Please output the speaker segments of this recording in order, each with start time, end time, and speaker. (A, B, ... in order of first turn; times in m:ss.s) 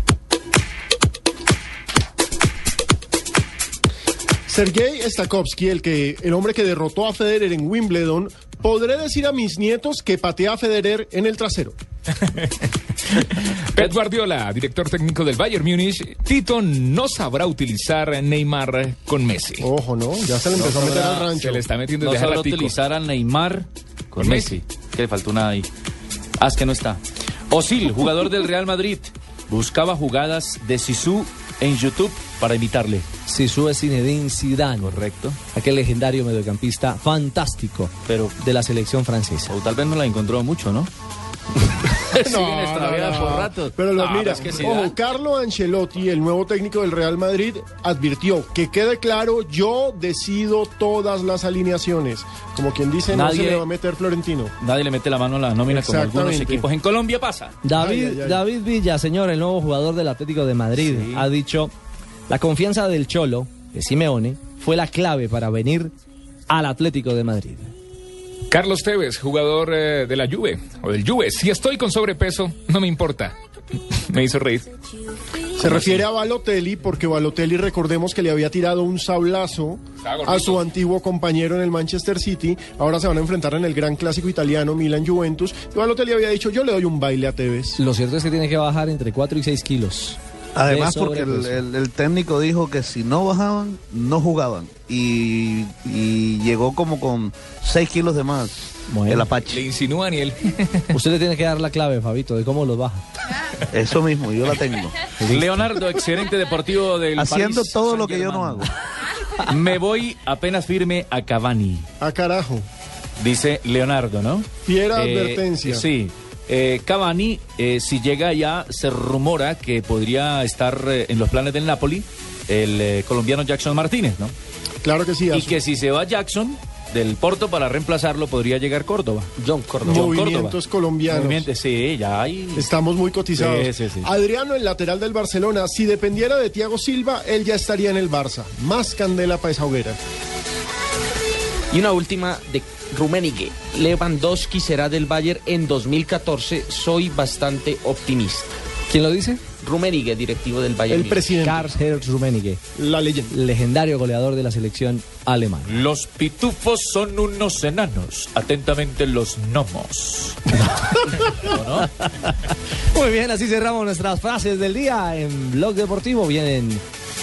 0:04.5-0:11.8 A
0:12.2-0:19.7 B
0:19.6-0:21.7 A
0:20.5-0:21.4 C
0:21.4-0:22.7 B
0:22.0-0:25.7 C
0:24.2-0:24.6 B
0:26.4-0:33.1 C
0:33.3-0:35.0 D
0:34.8-0:35.4 C
0:35.5-0:39.5 D
0:38.1-0:38.4 C
0:39.5-0:40.9 C
0:41.9-0:45.0 C
0:42.1-0:54.6 A
0:53.1-0:53.7 C
0:54.6-0:57.6 C
0:55.7-0:56.7 A
0:57.6-1:01.7 D
0:57.7-0:58.4 A
1:00.8-1:01.3 C
1:02.3-1:05.9 D
1:06.5-1:07.7 D
1:08.5-1:13.4 B
1:14.1-1:14.7 B
1:15.6-1:27.8 A
1:20.0-1:20.6 B
1:27.8-1:31.6 D
1:30.6-1:39.6 E
1:38.9-1:39.3 D
1:39.5-1:40.9 B
1:40.9-1:43.0 D
1:43.7-1:45.0 E
1:45.2-1:45.7 D
1:45.2-1:48.7 C
1:47.2-1:48.7 E
1:49.4-1:51.9 C
1:52.0-1:52.7 A
1:53.2-2:04.4 C
1:54.6-1:55.9 A
2:04.8-2:05.6 A
2:05.3-2:09.3 C
2:09.4-2:10.1 F
2:09.8-2:11.5 A
2:09.8-2:12.7 C
2:12.6-2:20.0 A
2:13.3-2:14.1 C
2:21.7-2:28.5 F
2:28.9-2:29.4 D
2:29.6-2:31.4 F
2:30.9-2:31.7 A
2:31.4-2:32.6 D
2:32.8-2:33.3 A
2:33.3-2:35.9 D
2:35.7-2:40.6 C
2:40.8-2:46.8 D
2:41.3-2:41.9 C